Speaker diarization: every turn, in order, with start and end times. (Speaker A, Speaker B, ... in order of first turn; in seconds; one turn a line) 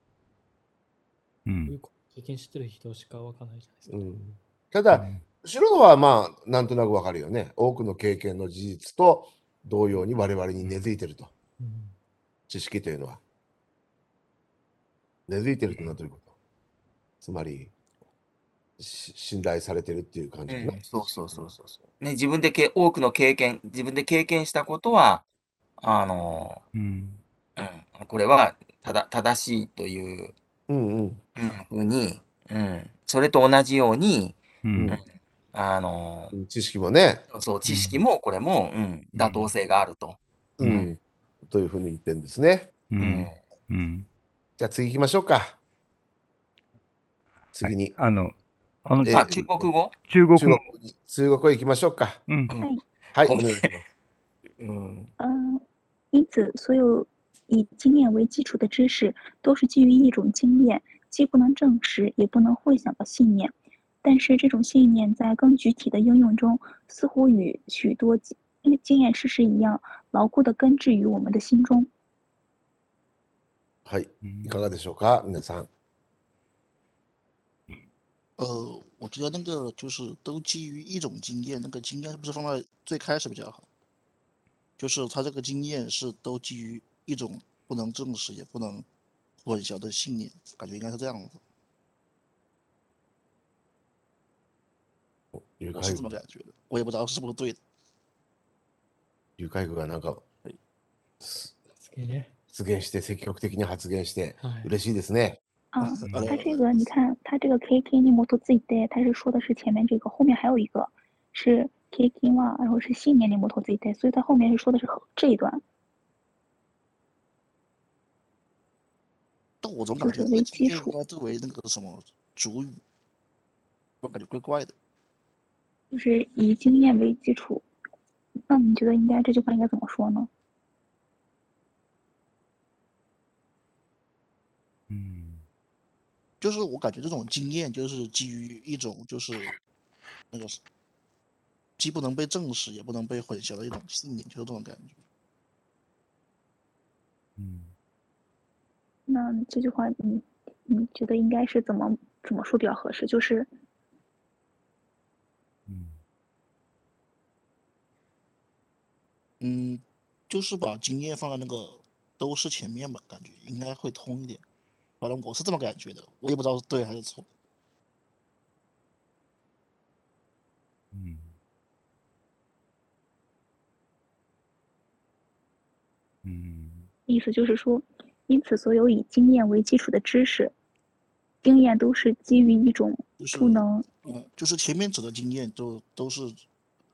Speaker A: 1.5-1.8
Speaker B: 1.7-4.0
Speaker C: 3.9-11.3
Speaker A: 4.9-5.2
Speaker B: 11.6-11.9
Speaker C: 12.5-13.2
Speaker C: 15.3-16.3
Speaker C: 17.2-17.7
Speaker C: 18.8-21.4
Speaker D: 20.5-25.2
Speaker D: 25.8-26.6
Speaker A: 26.7-27.2
Speaker D: 27.6-30.4
Speaker C: 30.7-31.2
Speaker D: 31.4-36.4
Speaker A: 34.6-35.0
Speaker C: 36.3-37.2
Speaker D: 37.3-40.9
Speaker A: 37.6-38.0
Speaker A: 39.2-39.5
Speaker C: 40.6-42.7
Speaker A: 42.9-44.1
Speaker D: 43.0-43.4
Speaker C: 44.6-45.6
Speaker C: 47.5-48.0
Speaker A: 47.6-49.5
Speaker C: 49.0-49.4
Speaker D: 49.1-49.9
Speaker A: 50.1-50.6
Speaker C: 50.4-52.2
Speaker C: 53.1-53.8
Speaker D: 53.2-53.7
Speaker D: 54.6-55.1
Speaker E: 55.2-71.9
Speaker C: 73.8-75.7
Speaker A: 74.2-74.6
Speaker F: 78.4-83.7
Speaker F: 84.8-88.8
Speaker F: 89.4-91.4
Speaker C: 95.3-96.1
Speaker F: 95.7-97.6
Speaker C: 99.4-100.2
Speaker C: 101.2-101.5
Speaker B: 101.8-102.3
Speaker C: 102.5-105.4
Speaker B: 104.4-104.7
Speaker E: 105.7-115.6
Speaker F: 105.9-106.9
Speaker F: 119.6-122.8
Speaker E: 120.0-121.0
Speaker F: 124.0-124.8
Speaker E: 125.9-127.7
Speaker E: 128.5-130.3
Speaker A: 134.9-135.4
Speaker F: 136.4-139.5
Speaker F: 140.3-140.6
Speaker F: 141.8-145.0
Speaker A: 147.4-147.7
Speaker E: 149.1-153.5
Speaker A: 155.7-156.0
Speaker F: 159.4-164.4
Speaker F: 165.0-167.3
Speaker A: 170.9-171.3
Speaker A: 176.2-176.9
Speaker E: 177.1-180.5
Speaker E: 181.4-183.8
Speaker F: 183.2-186.4